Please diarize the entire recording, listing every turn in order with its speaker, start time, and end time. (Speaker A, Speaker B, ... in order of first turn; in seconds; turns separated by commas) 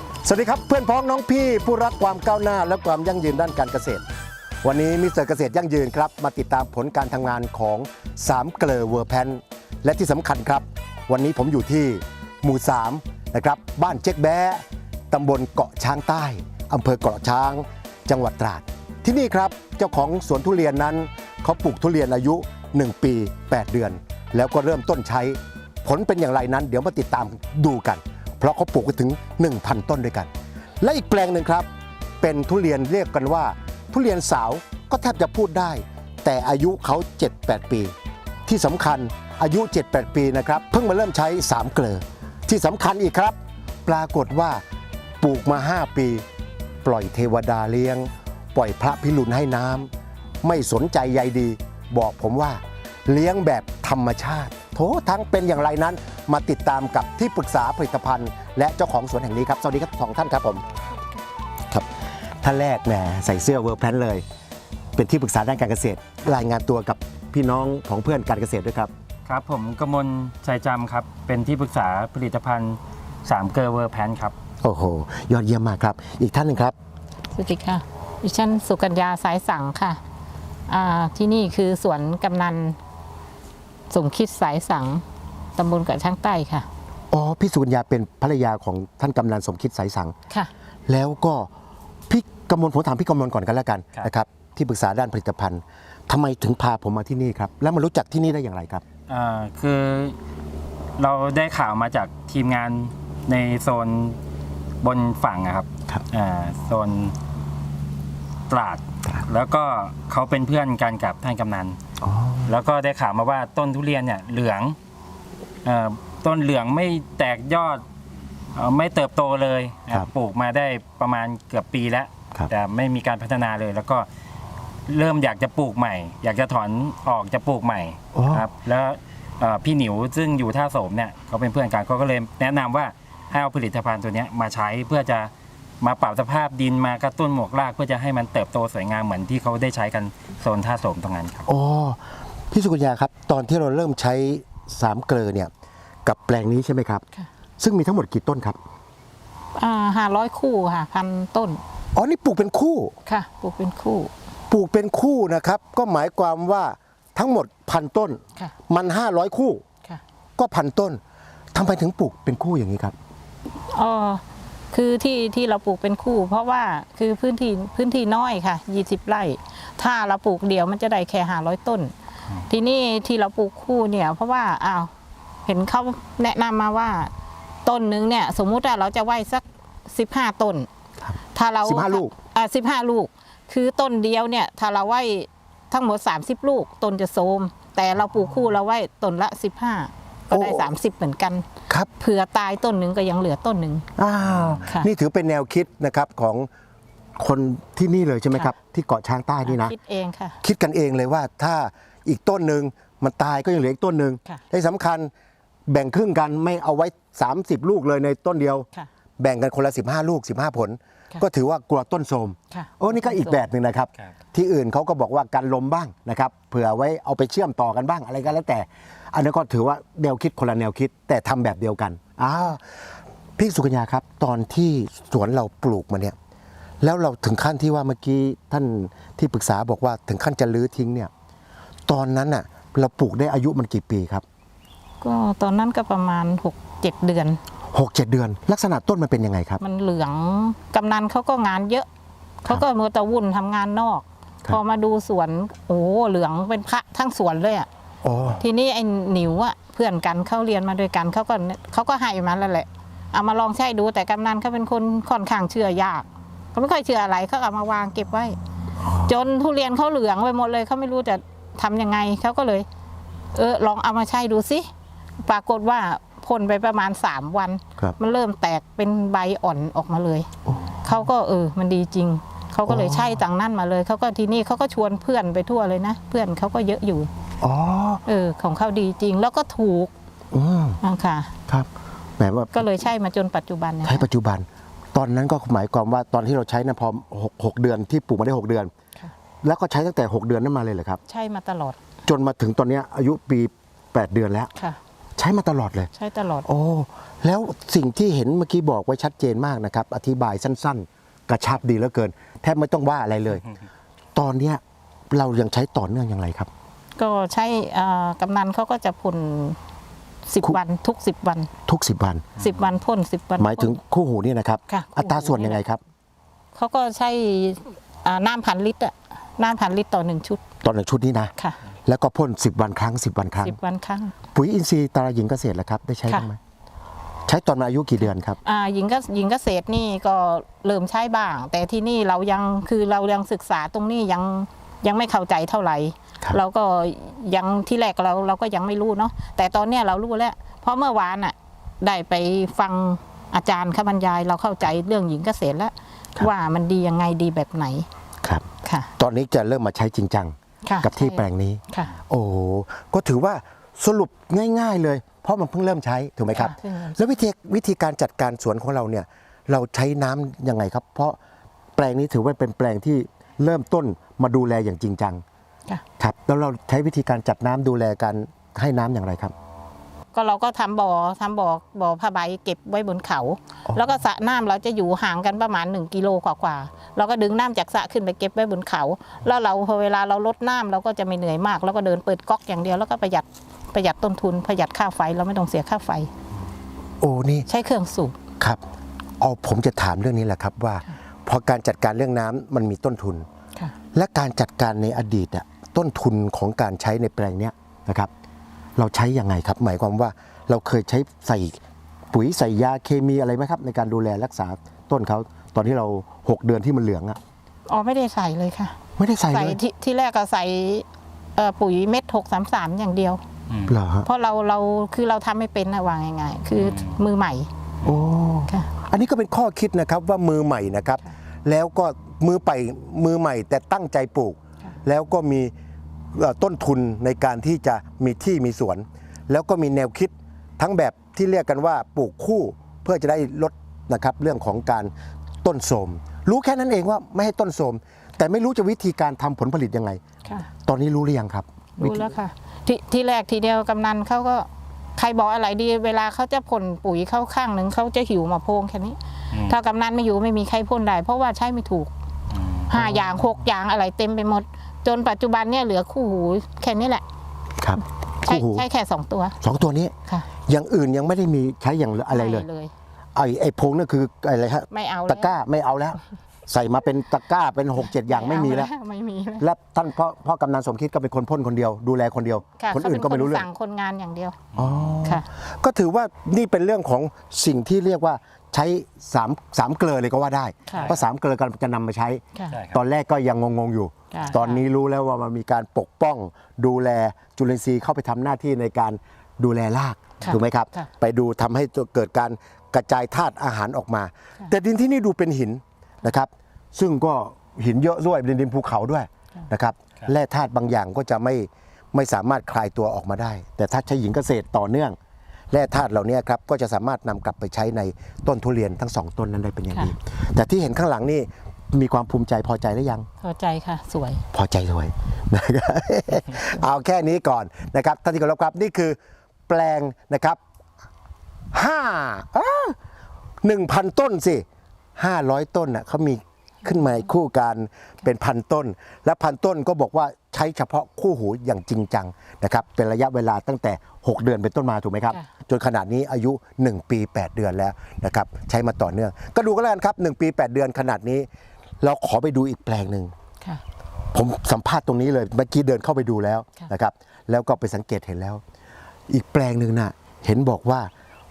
Speaker A: 0.2-4.0, Speaker A: 4.6-31.7, Speaker A: 32.2-37.9, Speaker A: 38.5-44.6, Speaker A: 45.2-46.2, Speaker A: 46.8-49.9, Speaker A: 50.4-60.6, Speaker A: 62.4-64.2, Speaker A: 64.9-68.9, Speaker B: 69.2-74.3, Speaker A: 74.6-76.7, Speaker C: 77.3-80.0, Speaker C: 80.7-82.8, Speaker C: 83.9-85.0, Speaker C: 85.5-86.7, Speaker A: 87.1-90.1, Speaker A: 90.9-91.5, Speaker A: 92.1-98.8, Speaker B: 99.1-100.2, Speaker B: 101.0-104.2, Speaker B: 104.8-107.1, Speaker B: 108.5-111.8, Speaker A: 112.0-112.5, Speaker B: 112.5-114.8, Speaker B: 115.6-117.8, Speaker B: 118.5-124.1, Speaker B: 124.9-141.4, Speaker A: 128.1-128.4, Speaker A: 141.5-145.5, Speaker A: 146.0-147.1, Speaker A: 147.6-148.6, Speaker C: 149.6-151.6, Speaker A: 151.9-152.9, Speaker C: 153.1-154.1, Speaker A: 154.5-159.6, Speaker A: 160.4-161.0, Speaker A: 161.5-162.9, Speaker C: 163.7-171.9, Speaker C: 172.5-174.9, Speaker C: 175.4-177.1, Speaker C: 177.6-180.7, Speaker A: 181.0-182.1, Speaker C: 181.3-191.4, Speaker A: 190.3-190.7, Speaker C: 192.0-193.8, Speaker A: 194.0-196.5, Speaker B: 194.3-194.6, Speaker A: 197.2-199.7, Speaker C: 199.4-200.4, Speaker A: 200.4-205.1, Speaker A: 205.7-208.7, Speaker A: 209.2-222.6, Speaker C: 212.5-213.4, Speaker A: 223.4-226.1, Speaker A: 226.8-231.1, Speaker A: 231.9-234.2, Speaker C: 235.0-237.4, Speaker A: 237.7-239.6, Speaker C: 239.6-241.9, Speaker C: 242.4-247.7, Speaker A: 248.0-248.4, Speaker C: 248.4-258.4, Speaker A: 258.8-259.1, Speaker C: 259.0-262.6, Speaker C: 263.3-264.7, Speaker C: 265.2-270.3, Speaker A: 270.4-270.9, Speaker C: 270.8-277.1, Speaker A: 272.6-273.2, Speaker A: 277.4-278.0, Speaker C: 278.1-279.9, Speaker A: 280.3-280.8, Speaker C: 280.8-281.3, Speaker A: 281.5-282.7, Speaker C: 282.5-284.1, Speaker A: 283.8-288.7, Speaker A: 289.4-291.0, Speaker C: 291.1-291.8, Speaker A: 292.1-294.5, Speaker A: 295.2-295.9, Speaker C: 295.9-296.4, Speaker A: 296.4-303.4, Speaker A: 304.1-306.5, Speaker C: 306.9-309.6, Speaker C: 310.3-311.5, Speaker A: 311.6-312.2, Speaker C: 312.4-313.8, Speaker A: 313.4-315.8, Speaker C: 314.7-315.6, Speaker C: 316.5-320.4, Speaker A: 320.6-321.3, Speaker A: 321.9-323.6, Speaker C: 323.4-324.1, Speaker A: 324.3-326.4, Speaker A: 327.3-328.4, Speaker C: 328.4-347.9, Speaker C: 348.6-348.9, Speaker A: 349.0-361.2, Speaker C: 350.6-351.9, Speaker C: 356.3-357.2, Speaker A: 361.8-365.2, Speaker A: 366.0-369.3, Speaker C: 370.1-386.1, Speaker A: 373.7-373.9, Speaker A: 387.0-387.5, Speaker C: 387.5-388.1, Speaker A: 389.2-393.2, Speaker A: 393.9-398.1, Speaker A: 398.8-401.6, Speaker A: 402.1-407.2, Speaker C: 407.7-408.7, Speaker A: 409.0-409.6, Speaker C: 409.3-413.2, Speaker B: 413.5-413.8, Speaker A: 413.7-414.1, Speaker C: 414.1-417.5, Speaker B: 416.5-417.0, Speaker A: 417.8-425.5, Speaker A: 426.1-434.9, Speaker A: 435.4-440.0, Speaker A: 440.6-442.1, Speaker C: 441.8-451.9, Speaker B: 452.3-453.1, Speaker C: 452.7-457.0, Speaker A: 457.6-458.6, Speaker C: 458.2-459.3, Speaker A: 459.4-459.9, Speaker A: 460.4-462.4, Speaker C: 462.1-462.7, Speaker A: 463.1-468.7, Speaker C: 464.7-465.3, Speaker C: 467.9-469.5, Speaker A: 469.4-473.5, Speaker C: 472.6-474.4, Speaker B: 474.5-475.2, Speaker A: 474.6-504.9, Speaker C: 480.7-480.9, Speaker B: 480.7-481.0, Speaker B: 482.5-482.8, Speaker C: 484.1-484.6, Speaker C: 490.2-490.9, Speaker A: 505.5-513.1, Speaker C: 513.2-514.2, Speaker A: 514.3-519.0, Speaker A: 519.5-520.4, Speaker A: 521.5-522.8, Speaker A: 523.4-524.4, Speaker A: 525.0-541.3, Speaker A: 541.8-543.1, Speaker A: 544.1-548.4, Speaker A: 549.1-550.9